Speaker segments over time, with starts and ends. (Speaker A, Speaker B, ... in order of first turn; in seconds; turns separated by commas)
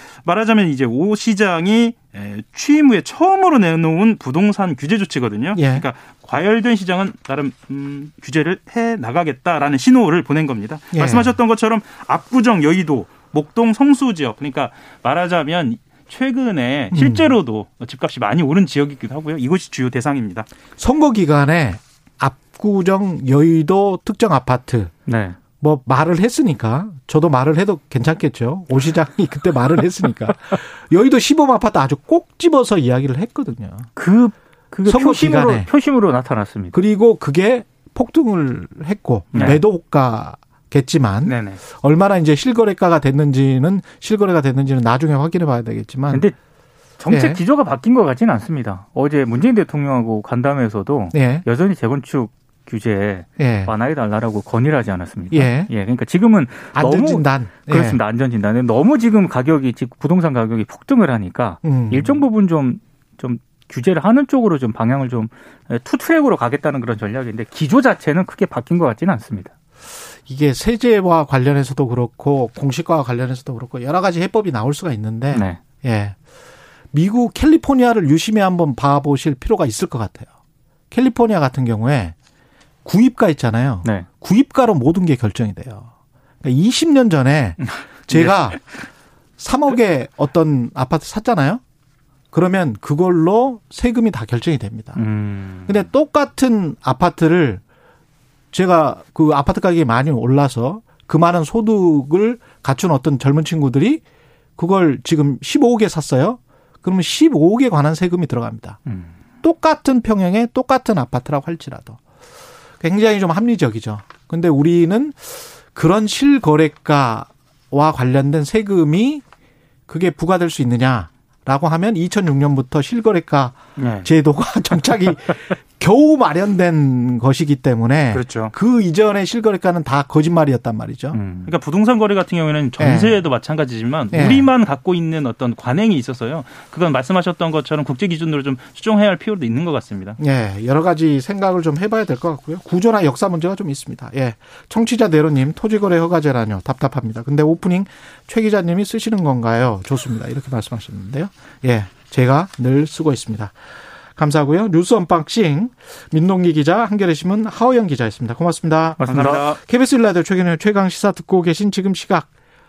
Speaker A: 0.2-20.5, Speaker B: 5.5-5.8, Speaker B: 10.9-11.3, Speaker B: 16.9-17.3, Speaker B: 20.8-24.9, Speaker C: 25.1-25.4, Speaker B: 25.6-33.9, Speaker C: 34.0-36.8, Speaker B: 34.9-35.7, Speaker B: 36.7-46.2, Speaker A: 39.3-39.6, Speaker C: 39.3-39.6, Speaker A: 41.2-41.6, Speaker C: 46.1-46.4, Speaker C: 47.0-69.5, Speaker B: 47.1-47.4, Speaker B: 51.1-51.4, Speaker B: 53.4-53.7, Speaker B: 55.3-55.7, Speaker B: 56.7-58.0, Speaker B: 61.6-62.2, Speaker B: 70.2-76.1, Speaker C: 75.3-75.6, Speaker B: 76.9-80.3, Speaker B: 80.9-82.1, Speaker B: 82.8-85.9, Speaker B: 86.4-88.7, Speaker B: 89.4-91.6, Speaker B: 92.3-95.0, Speaker C: 95.0-95.8, Speaker B: 95.7-97.6, Speaker B: 98.5-104.0, Speaker B: 104.6-108.8, Speaker B: 109.4-112.0, Speaker B: 112.8-119.2, Speaker B: 119.9-131.2, Speaker A: 123.8-124.1, Speaker A: 128.1-128.5, Speaker C: 131.1-131.5, Speaker A: 131.4-140.2, Speaker B: 132.8-133.2, Speaker B: 134.1-134.5, Speaker B: 140.2-153.6, Speaker B: 154.2-162.3, Speaker C: 159.0-159.4, Speaker A: 159.0-159.6